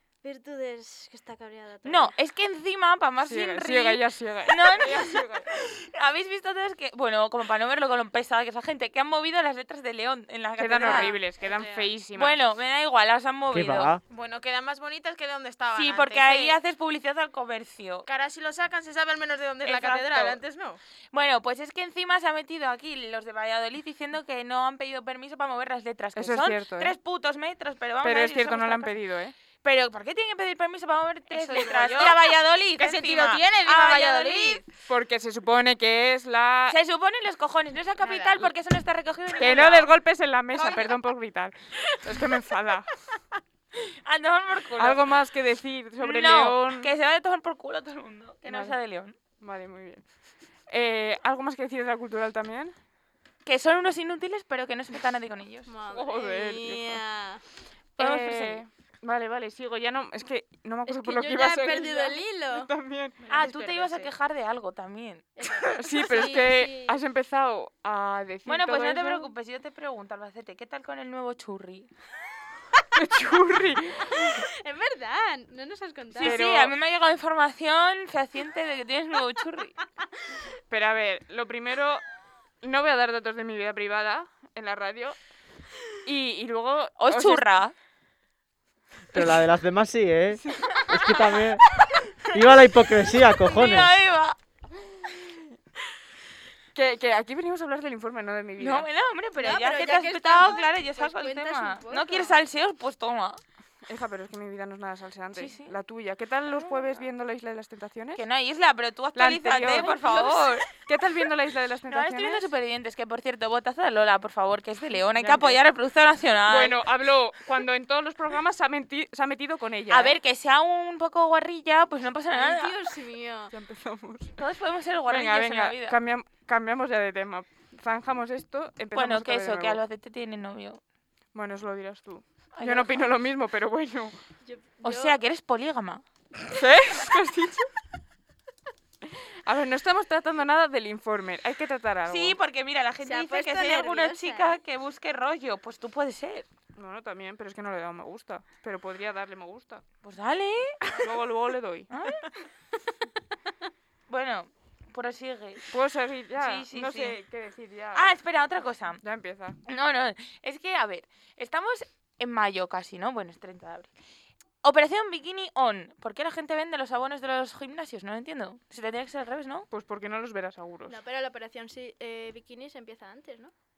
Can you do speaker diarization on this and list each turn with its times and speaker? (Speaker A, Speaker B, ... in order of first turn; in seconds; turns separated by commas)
Speaker A: 0.2-2.1, Speaker B: 1.8-11.2, Speaker C: 3.2-5.5, Speaker C: 10.6-12.4, Speaker D: 10.8-11.9, Speaker B: 12.1-14.0, Speaker E: 13.5-14.0, Speaker D: 14.1-16.6, Speaker B: 15.7-18.1, Speaker D: 18.1-20.8, Speaker B: 19.6-20.4, Speaker B: 21.1-29.0, Speaker C: 26.2-26.9, Speaker C: 28.0-29.4, Speaker B: 29.6-34.6, Speaker D: 31.3-32.2, Speaker D: 32.8-34.7, Speaker C: 34.9-36.8, Speaker B: 36.7-40.0, Speaker D: 38.0-38.5, Speaker C: 39.4-42.9, Speaker B: 40.5-41.0, Speaker B: 43.8-45.0, Speaker C: 44.8-46.9, Speaker B: 46.0-49.2, Speaker C: 48.5-48.8, Speaker C: 49.4-50.0, Speaker C: 50.7-52.7, Speaker B: 53.4-55.7, Speaker A: 55.7-57.4, Speaker C: 55.9-57.0, Speaker C: 58.0-63.3, Speaker B: 58.0-58.6, Speaker A: 60.9-62.7, Speaker D: 63.3-64.1, Speaker B: 63.3-65.3, Speaker A: 65.4-67.0, Speaker C: 65.8-69.3, Speaker B: 68.5-71.9, Speaker C: 73.0-74.4, Speaker A: 74.2-76.4, Speaker B: 76.2-79.8, Speaker C: 76.2-76.7, Speaker C: 80.7-82.0, Speaker C: 82.6-85.2, Speaker C: 86.0-87.4, Speaker B: 87.0-87.7, Speaker E: 89.1-91.7, Speaker E: 92.3-93.9, Speaker B: 93.3-94.4, Speaker C: 96.8-98.9, Speaker B: 98.6-103.4, Speaker A: 99.4-102.3, Speaker C: 103.9-108.2, Speaker B: 105.3-105.8, Speaker B: 106.5-107.0, Speaker B: 108.2-110.7, Speaker C: 109.2-112.5, Speaker B: 111.9-116.8, Speaker C: 115.1-115.6, Speaker C: 116.5-120.2, Speaker B: 119.9-122.8, Speaker A: 122.3-123.5, Speaker C: 123.5-124.4, Speaker B: 124.4-126.0, Speaker C: 125.1-129.8, Speaker B: 128.9-130.8, Speaker C: 131.3-134.2, Speaker B: 132.5-133.1, Speaker A: 134.4-135.2, Speaker B: 134.8-136.0, Speaker C: 136.6-137.7, Speaker C: 139.4-142.4, Speaker B: 142.1-146.5, Speaker A: 143.0-144.6, Speaker C: 146.8-149.8, Speaker B: 150.0-150.8, Speaker C: 151.0-151.9, Speaker B: 151.9-152.2, Speaker B: 154.1-155.7, Speaker C: 155.7-158.1, Speaker B: 156.4-157.2, Speaker B: 157.9-159.0, Speaker C: 159.0-159.6, Speaker B: 159.7-163.9, Speaker B: 164.6-169.7, Speaker C: 169.7-171.0, Speaker A: 170.9-173.5